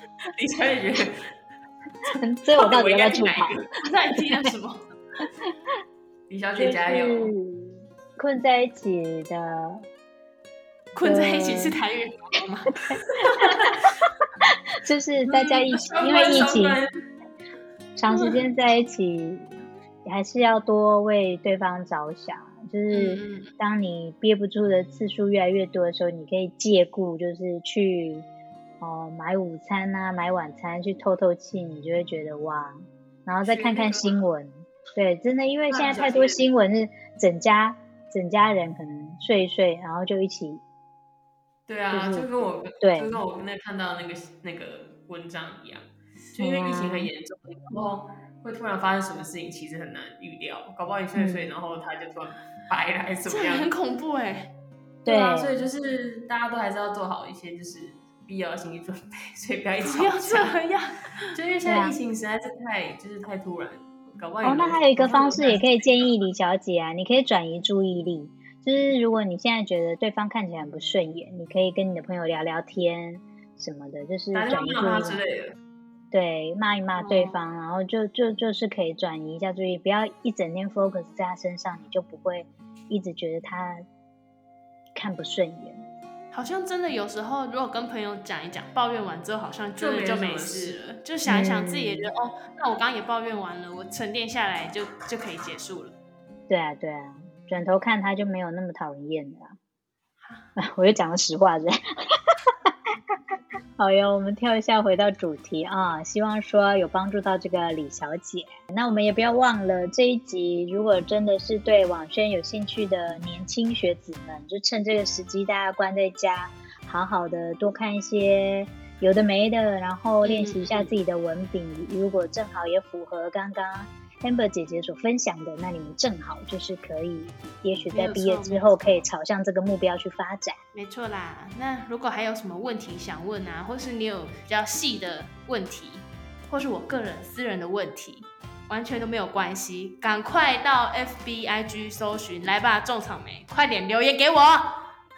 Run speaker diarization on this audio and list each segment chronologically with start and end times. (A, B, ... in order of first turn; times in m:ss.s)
0:00.3-0:01.2 A
0:02.1-0:03.6 B
0:02.1-0:03.7 A
0:03.8-0:04.8 C
0:06.3-0:07.3 A
0:06.6-0:09.8 B
0:10.9-0:12.8 C
0:11.0-0:11.8 B
0:12.8-0:13.6 B
0:14.4-0:16.8 B
0:15.3-0:16.9 A
0:18.0-0:19.5 B
0:20.0-0:28.3 B
0:22.9-0:23.5 C
0:28.8-0:40.6 B
0:33.4-0:34.2 A
0:35.7-0:36.4 A
0:41.7-0:53.7 A
0:41.9-0:42.3 B
0:42.8-0:43.2 B
0:46.4-0:47.1 B
0:51.2-0:51.5 B
0:53.3-0:54.5 C
0:55.0-0:55.5 B
0:55.0-1:00.6 A
0:59.8-1:01.3 C
1:01.3-1:05.7 A
1:01.6-1:01.9 B
1:04.4-1:15.2 B
1:14.3-1:15.6 A
1:16.1-1:23.8 B
1:17.0-1:17.4 C
1:24.9-1:25.8 B
1:26.3-1:35.9 C
1:29.8-1:30.8 A
1:31.2-1:32.1 B
1:36.5-1:39.6 B
1:40.2-1:40.5 C
1:40.6-1:42.7 B
1:43.8-2:10.6 B
2:00.2-2:00.9 C
2:07.9-2:08.9 C
2:10.7-2:24.8 C